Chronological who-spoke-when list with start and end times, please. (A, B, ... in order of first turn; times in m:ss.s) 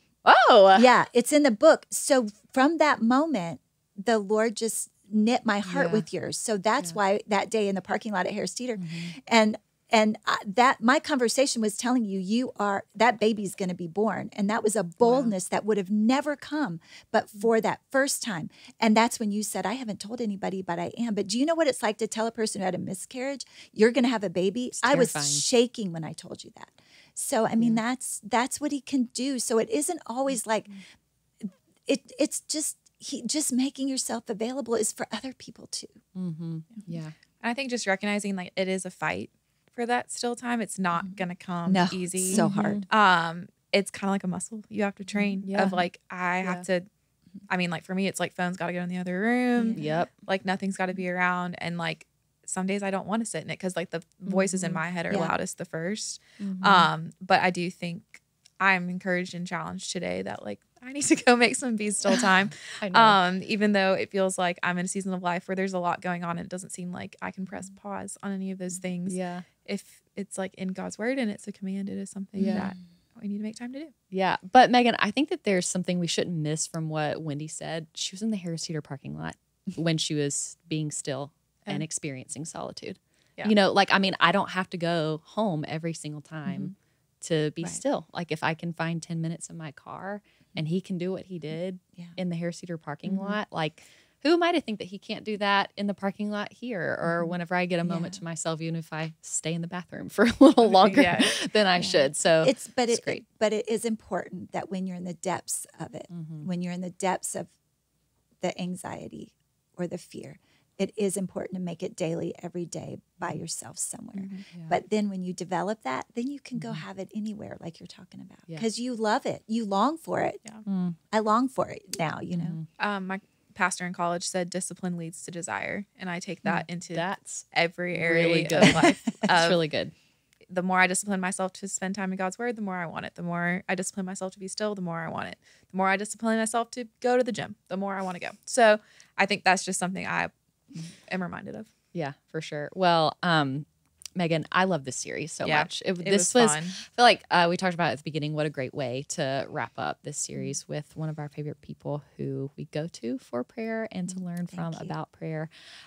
0:00.2-0:00.9 A
0:00.7-0:30.7 B
0:05.6-0:06.0 A
0:08.8-0:09.1 A
0:15.0-0:15.3 A
0:24.7-0:25.4 A
0:31.4-0:36.0 B
0:36.1-0:37.1 A
0:37.4-0:46.9 C
0:41.6-0:42.8 B
0:42.3-0:42.8 A
0:45.4-0:45.8 A
0:47.5-1:13.9 C
0:49.6-0:50.0 B
0:49.7-0:50.1 A
0:54.2-0:55.3 A
0:56.4-0:56.9 A
1:02.8-1:03.2 A
1:09.0-1:09.4 A
1:12.4-1:12.7 A
1:12.4-1:12.7 B
1:14.1-1:43.2 A
1:26.4-1:26.7 B
1:33.0-1:33.4 B
1:37.8-1:38.2 B
1:40.6-1:41.4 C
1:41.8-1:47.5 B
1:46.1-1:46.5 A
1:48.4-2:00.4 B
1:54.5-1:54.8 A
1:56.6-1:56.8 A
2:00.6-2:01.0 A
2:01.1-2:02.6 B
2:02.3-2:02.6 A
2:02.8-2:09.6 C
2:06.4-2:09.9 A
2:10.5-2:20.3 C
2:20.9-2:21.7 C
2:21.9-2:35.5 A
2:25.4-2:26.8 C
2:34.1-2:34.9 B